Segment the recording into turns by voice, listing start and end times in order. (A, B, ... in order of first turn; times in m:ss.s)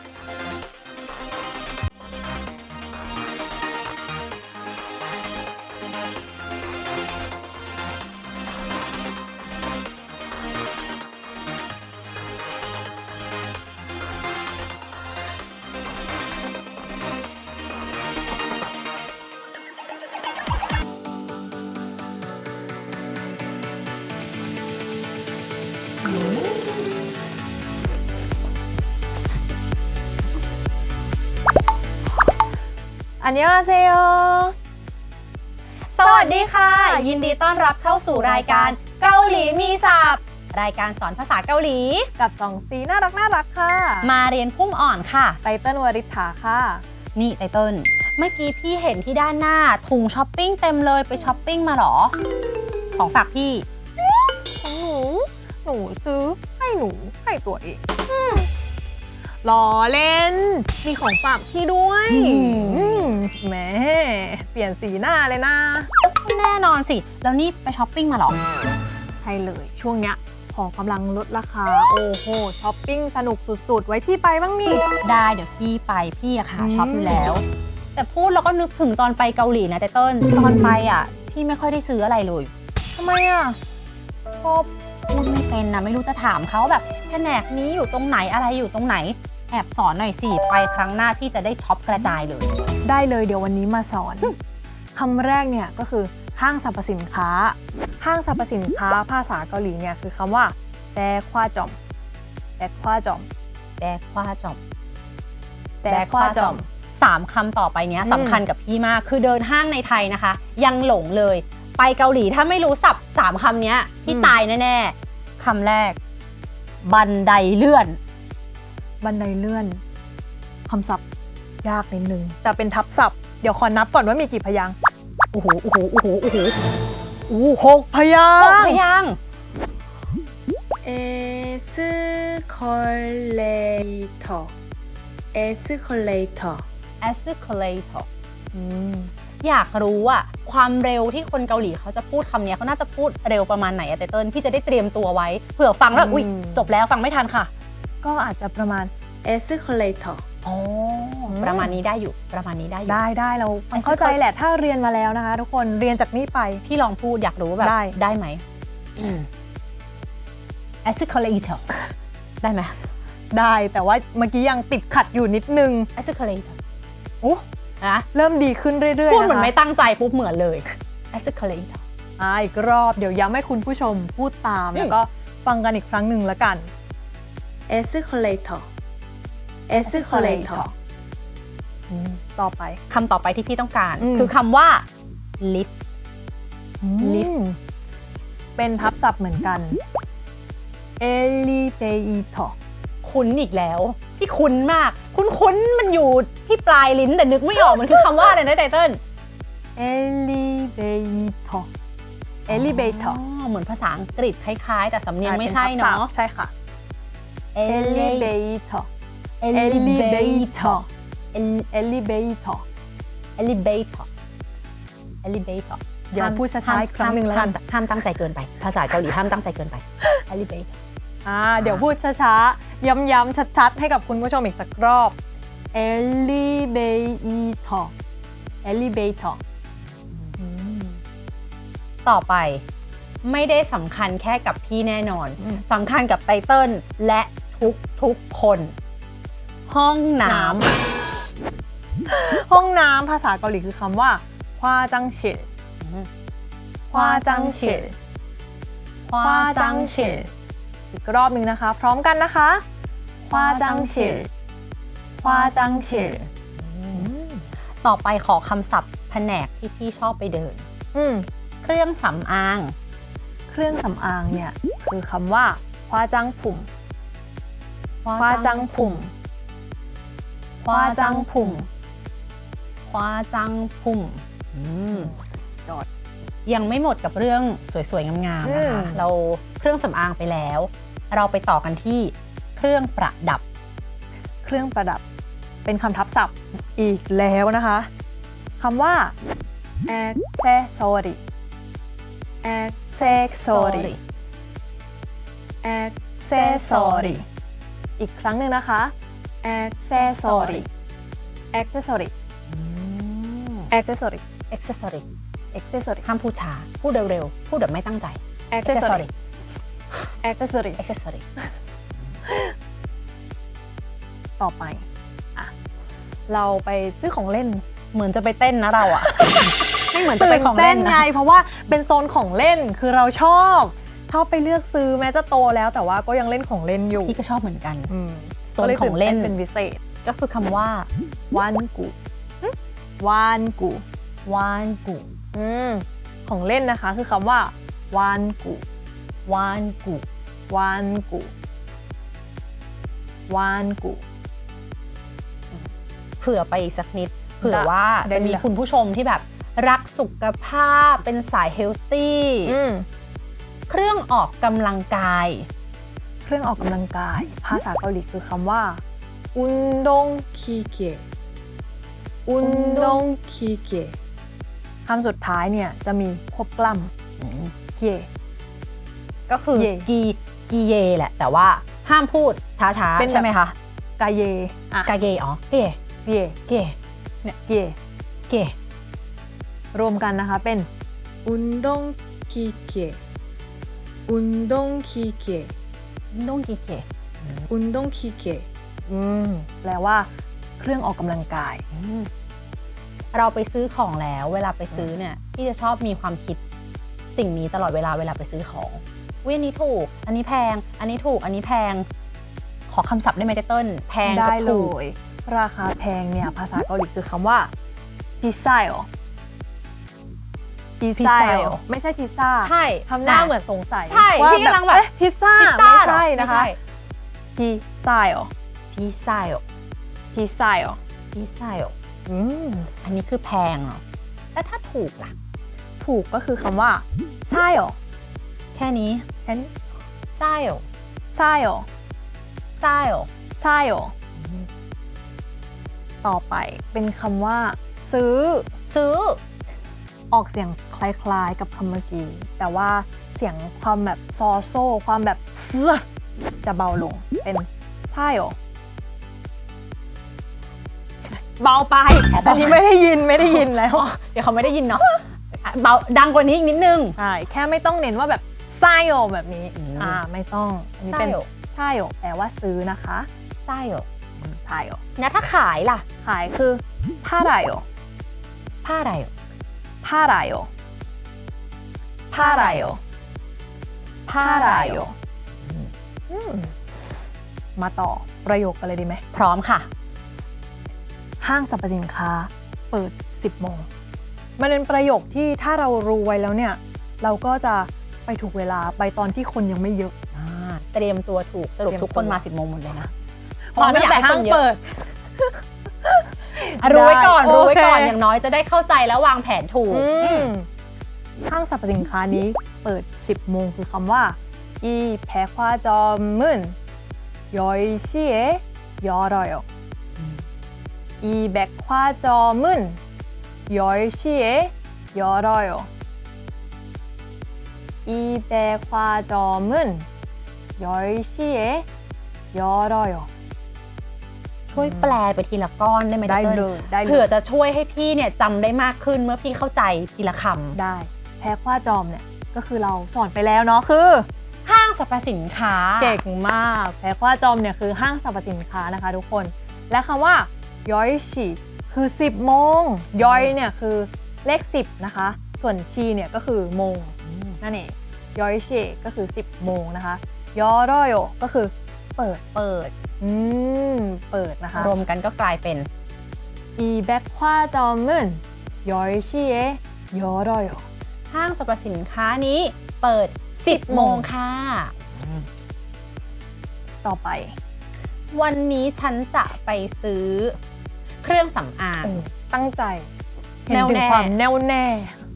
0:33.2-0:34.5 A
0:35.9-0:42.1 B
0:36.0-0:38.8 A
0:42.2-0:44.1 A
0:44.0-0:45.4 B
0:45.4-0:46.8 A
0:47.1-0:52.1 B
0:53.0-0:53.6 B
0:54.6-0:58.4 A
0:59.4-1:05.9 A
1:02.1-1:03.1 B
1:06.0-1:08.4 B
1:09.2-1:14.8 A
1:15.0-1:22.5 B
1:16.6-1:17.3 A
1:22.9-1:23.6 A
1:24.4-1:32.6 B
1:32.8-1:34.4 A
1:34.9-1:41.8 A
1:42.6-1:43.3 A
1:43.8-1:44.6 B
1:45.8-1:46.6 A
1:45.8-1:56.0 B
1:48.0-1:48.4 A
1:54.1-1:54.3 A
1:56.8-1:58.0 B
1:59.0-1:59.8 A
2:00.7-2:01.0 A
2:01.6-2:04.8 A
2:05.3-2:06.6 B
2:07.3-2:08.8 A
2:08.4-2:09.2 B
2:10.8-2:14.5 C
2:15.3-2:16.6 C
2:17.0-2:18.1 B
2:18.5-2:19.1 A
2:19.4-2:27.5 B
2:25.9-2:26.7 A
2:28.0-2:28.9 A
2:29.2-2:30.2 C
2:30.4-2:33.0 B
2:31.3-2:31.8 A
2:32.9-2:36.6 A
2:33.7-2:34.2 B
2:36.6-2:38.4 B
2:37.6-2:38.0 A
2:39.0-2:39.3 B
2:40.8-2:41.6 B
2:42.4-2:42.8 B
2:43.3-2:45.9 A
2:46.0-2:46.6 B
2:47.2-2:48.1 B
2:48.1-2:49.5 A
2:49.1-2:51.8 B
2:52.2-2:56.7 A
2:57.7-2:58.7 C
2:59.7-3:00.7 C
2:59.8-3:00.7 A
3:01.9-3:02.8 A
3:02.9-3:04.8 B
3:04.0-3:04.3 A
3:05.4-3:05.7 B
3:06.8-3:07.6 A
3:07.0-3:07.3 B
3:08.6-3:09.8 A
3:11.0-3:12.6 A
3:13.0-3:19.0 B
3:19.8-3:21.7 A
3:22.5-3:26.1 B
3:22.5-3:23.2 A
3:25.2-3:26.5 A
3:27.5-3:28.3 B
3:27.7-3:28.9 A
3:29.4-3:31.6 B
3:29.5-3:30.9 A
3:31.6-3:32.6 A
3:33.4-3:34.1 B
3:35.2-3:40.7 B
3:36.1-3:37.6 A
3:41.2-3:45.2 A
3:41.6-3:41.8 B
3:45.7-3:47.9 A
3:48.6-3:49.4 A
3:50.4-3:50.9 A
3:52.0-3:52.6 B
3:53.2-3:58.7 B
3:59.7-4:00.7 B
4:00.2-4:00.7 A
4:02.1-4:05.5 A
4:05.8-4:06.1 B
4:06.9-4:07.9 A
4:06.9-4:07.8 B
4:09.1-4:10.3 B
4:09.2-4:10.3 A
4:10.9-4:12.6 A
4:13.3-4:14.2 B
4:13.3-4:14.3 A
4:15.2-4:16.2 A
4:15.2-4:17.1 B
4:16.9-4:17.5 A
4:17.8-4:20.6 B
4:20.9-4:21.3 A
4:21.6-4:22.7 B
4:23.5-4:26.7 A
4:28.0-4:29.0 B
4:28.2-4:29.1 A
4:30.6-4:31.6 B
4:30.7-4:31.6 A
4:32.9-4:35.2 B
4:34.9-4:35.8 A
4:36.4-4:43.4 B
4:38.4-4:39.0 A
4:44.4-4:45.0 A
4:45.6-4:47.9 A
4:48.6-4:49.1 A
4:49.9-4:50.2 C
4:50.4-4:51.2 A
4:52.4-4:52.9 C
4:52.9-4:53.9 A
4:53.0-4:54.0 B
4:55.6-4:56.0 C
4:56.2-4:57.2 A
4:56.3-4:57.2 B
4:58.0-4:58.9 A
4:59.4-5:00.0 C
4:59.8-5:00.7 A
5:00.0-5:00.7 B
5:01.5-5:02.1 A
5:02.5-5:03.7 B
5:03.7-5:04.2 A
5:04.5-5:05.0 B
5:05.5-5:06.0 A
5:06.0-5:09.1 B
5:08.5-5:08.8 C
5:08.6-5:09.1 A
5:10.4-5:10.8 A
5:10.8-5:11.2 B
5:12.3-5:12.5 A
5:14.4-5:15.5 A
5:16.3-5:17.6 A
5:17.9-5:21.1 B
5:19.0-5:19.4 A
5:20.0-5:27.2 A
5:26.9-5:27.9 B
5:27.9-5:29.8 A
5:28.5-5:29.4 B
5:30.0-5:30.9 B
5:31.3-5:31.9 A
5:33.0-5:33.8 A
5:34.2-5:35.1 B
5:35.3-5:38.6 A
5:39.2-5:40.0 B
5:40.5-5:41.3 A
5:43.3-5:44.0 A
5:46.2-5:52.6 B
5:47.4-5:48.4 A
5:52.4-5:52.9 A
5:53.7-5:55.5 B
5:56.2-5:58.8 A
5:59.3-6:00.3 A
6:00.3-6:01.0 C
6:02.2-6:03.1 A
6:02.4-6:04.0 C
6:04.8-6:06.9 A
6:07.2-6:07.5 B
6:07.8-6:08.1 A
6:09.3-6:13.6 B
6:09.5-6:09.9 A
6:13.0-6:13.3 A
6:14.0-6:14.9 A
6:14.8-6:15.8 B
6:16.0-6:16.4 A
6:16.5-6:16.7 B
6:17.2-6:17.8 A
6:18.3-6:18.5 B
6:19.7-6:20.7 A
6:21.2-6:23.0 C
6:24.1-6:25.5 C
6:26.1-6:27.5 B
6:27.5-6:28.5 C
6:28.8-6:31.6 A
6:31.7-6:32.1 B
6:33.1-6:36.4 B
6:37.1-6:41.9 B
6:42.7-6:44.7 B
6:44.0-6:47.5 A
6:48.2-6:48.9 A
6:50.8-6:56.5 A
6:51.0-6:51.6 B
6:52.4-6:53.3 B
6:53.9-6:56.6 B
6:57.4-6:58.3 A
6:58.7-6:59.4 B
7:00.1-7:00.8 A
7:01.1-7:01.7 B
7:02.1-7:02.7 A
7:02.8-7:03.8 B
7:04.3-7:05.1 B
7:05.8-7:07.8 A
7:08.5-7:09.0 B
7:09.2-7:09.5 A
7:10.1-7:10.6 B
7:11.1-7:11.7 A
7:12.6-7:13.1 B
7:13.4-7:13.9 A
7:16.0-7:18.5 A
7:18.7-7:19.2 B
7:20.1-7:25.8 A
7:26.4-7:28.4 A
7:31.0-7:33.9 A
7:32.1-7:32.6 B
7:33.2-7:37.0 B
7:36.9-7:43.1 A
7:39.5-7:40.0 B
7:40.8-7:41.3 B
7:43.4-7:43.8 B
7:44.2-7:44.8 A
7:45.0-7:45.8 B
7:46.0-7:47.6 A
7:48.6-7:49.1 B
7:49.8-7:50.5 A
7:52.1-7:52.6 B
7:52.1-7:52.8 A
7:54.0-7:54.9 B
7:54.2-7:54.9 A
7:56.1-7:56.5 A
7:57.6-7:59.0 A
7:59.1-7:59.7 B
8:01.2-8:03.7 A
8:04.4-8:09.9 A
8:10.1-8:12.9 B
8:11.7-8:12.2 A
8:13.5-8:18.0 A
8:13.6-8:14.6 B
8:16.6-8:20.3 B
8:19.7-8:20.5 A
8:21.2-8:26.6 A
8:27.3-8:29.4 A
8:31.0-8:32.8 A
8:33.5-8:35.7 A
8:37.8-8:39.9 A
8:40.6-8:41.6 A
8:42.3-8:43.1 A
8:44.5-8:50.6 B
8:44.6-8:44.8 A
8:46.0-8:47.1 A
8:50.5-8:54.1 A
8:54.4-8:56.0 B
8:55.8-9:12.3 A
9:02.9-9:03.3 B
9:12.3-9:12.7 B
9:13.0-9:14.7 A
9:14.5-9:15.7 B
9:16.6-9:20.6 A
9:21.1-9:24.7 B
9:23.5-9:24.0 A
9:26.8-9:27.4 A
9:28.1-9:30.4 B
9:31.0-9:32.0 B
9:31.8-9:32.9 A
9:33.4-9:35.0 A
9:33.5-9:34.2 B